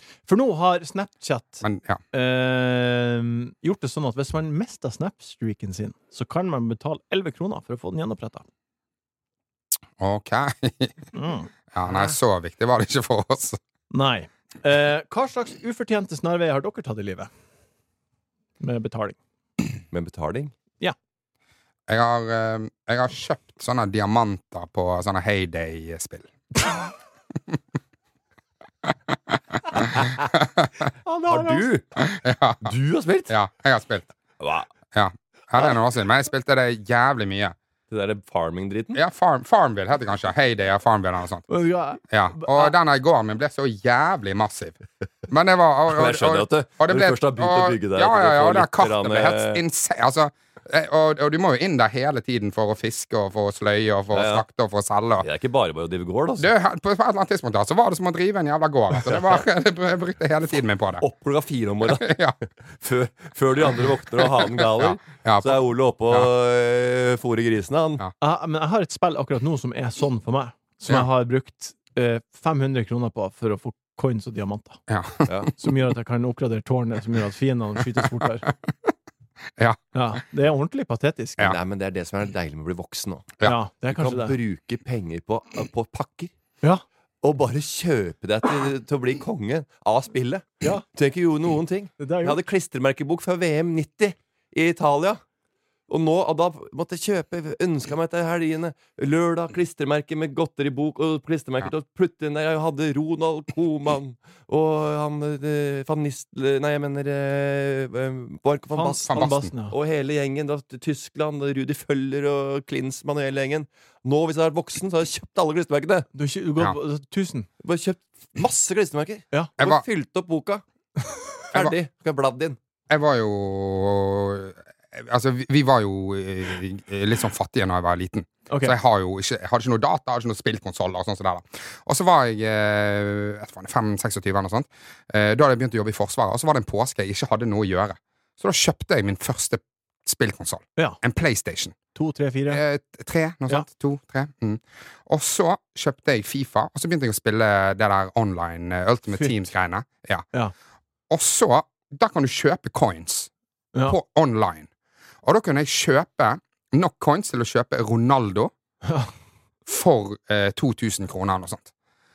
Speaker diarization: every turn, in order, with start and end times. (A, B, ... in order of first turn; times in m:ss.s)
0:00.3-0:08.4 A
0:01.6-0:02.0 B
0:10.0-0:11.1 B
0:11.1-0:11.5 A
0:11.7-0:13.6 B
0:13.9-0:17.3 A
0:18.6-0:19.2 A
0:19.9-0:20.5 C
0:21.9-0:26.3 B
0:29.3-0:30.7 B
0:31.0-0:31.7 A
0:31.3-0:31.8 C
0:32.0-0:32.7 B
0:32.6-0:33.3 C
0:33.3-0:34.1 B
0:34.4-0:34.7 C
0:34.9-0:37.6 B
0:37.9-0:39.0 C
0:38.9-0:41.4 B
0:41.5-0:42.7 A
0:42.1-0:44.8 B
0:45.3-0:55.3 B
0:45.9-0:49.6 C
0:54.1-0:54.4 C
0:55.2-0:56.5 C
0:56.4-1:01.0 B
1:01.0-1:08.0 C
1:01.8-1:02.4 B
1:04.8-1:05.6 B
1:08.2-1:14.8 A
1:14.9-1:15.3 B
1:15.6-1:18.5 A
1:19.9-1:21.5 A
1:21.4-1:26.3 C
1:23.4-1:24.4 A
1:27.2-1:35.2 C
1:32.0-1:32.4 A
1:35.9-1:49.2 C
1:48.7-1:49.7 A
1:49.1-1:49.5 B
1:49.7-1:56.1 C
1:56.1-1:57.5 A
1:57.6-2:00.6 C
2:01.5-2:02.6 C
2:02.9-2:21.7 B
2:08.5-2:08.8 A
2:21.9-2:22.6 A
2:22.5-2:30.2 B
2:31.1-2:33.3 B
2:33.8-2:34.7 B
2:35.2-2:38.5 B
2:38.8-2:39.1 A
2:39.6-2:41.7 B